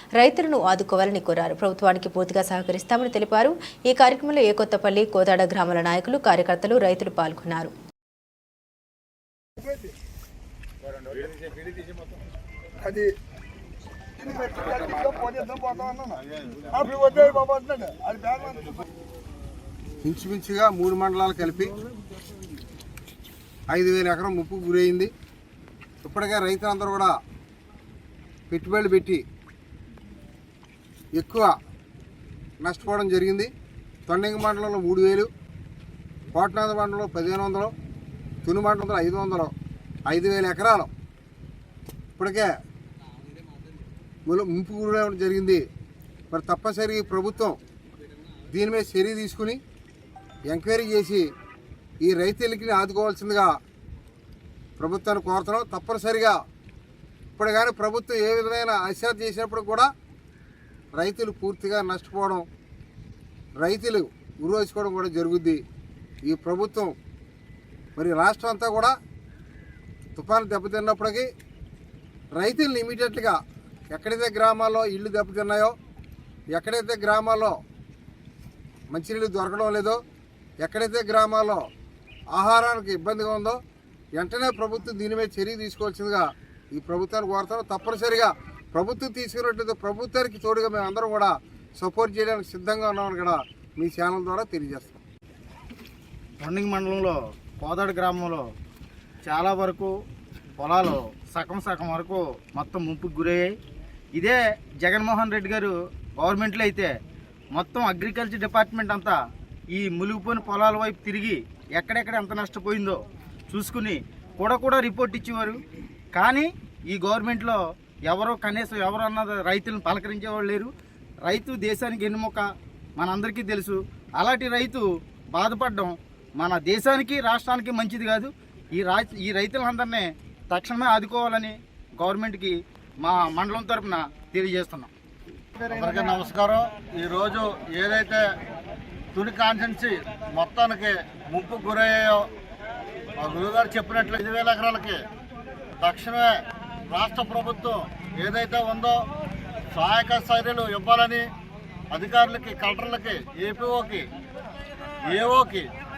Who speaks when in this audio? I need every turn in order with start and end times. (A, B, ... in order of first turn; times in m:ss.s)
0:00.2-0:07.7 A
0:12.8-0:13.1 B
0:14.2-0:16.1 B
0:16.1-0:17.4 C
0:17.0-0:18.8 B
0:20.0-0:21.8 D
0:23.7-0:25.1 D
0:26.0-0:27.2 D
0:28.5-0:29.2 D
0:31.2-0:31.5 D
0:32.6-0:33.5 D
0:34.1-0:35.3 D
0:36.3-0:37.7 D
0:38.4-0:39.5 D
0:40.1-0:40.9 D
0:42.2-0:42.5 D
0:44.3-0:45.6 D
0:46.3-0:47.6 D
0:48.4-0:49.6 D
0:50.5-0:51.3 D
0:52.0-0:53.5 D
0:54.8-0:56.4 D
0:57.4-0:59.9 D
1:00.9-1:02.4 D
1:03.6-1:05.6 D
1:06.3-1:06.9 D
1:08.0-1:08.9 D
1:10.2-1:11.3 D
1:12.4-1:13.4 D
1:13.9-1:15.7 D
1:16.5-1:17.6 D
1:18.9-1:20.0 D
1:20.6-1:21.6 D
1:22.3-1:23.6 D
1:24.2-1:35.0 D
1:36.4-1:38.4 E
1:39.2-1:39.9 E
1:40.6-1:43.5 E
1:44.2-1:46.9 E
1:47.5-1:49.2 E
1:49.7-1:55.6 E
1:56.1-2:00.7 E
2:01.2-2:02.4 E
2:03.0-2:14.9 E
2:15.7-2:16.2 E
2:15.7-2:18.2 C
2:19.1-2:22.3 C
2:23.2-2:25.0 C
2:25.8-2:26.4 C
2:26.9-2:29.0 C
2:29.7-2:31.2 C
2:31.9-2:34.0 C
2:35.1-2:35.7 C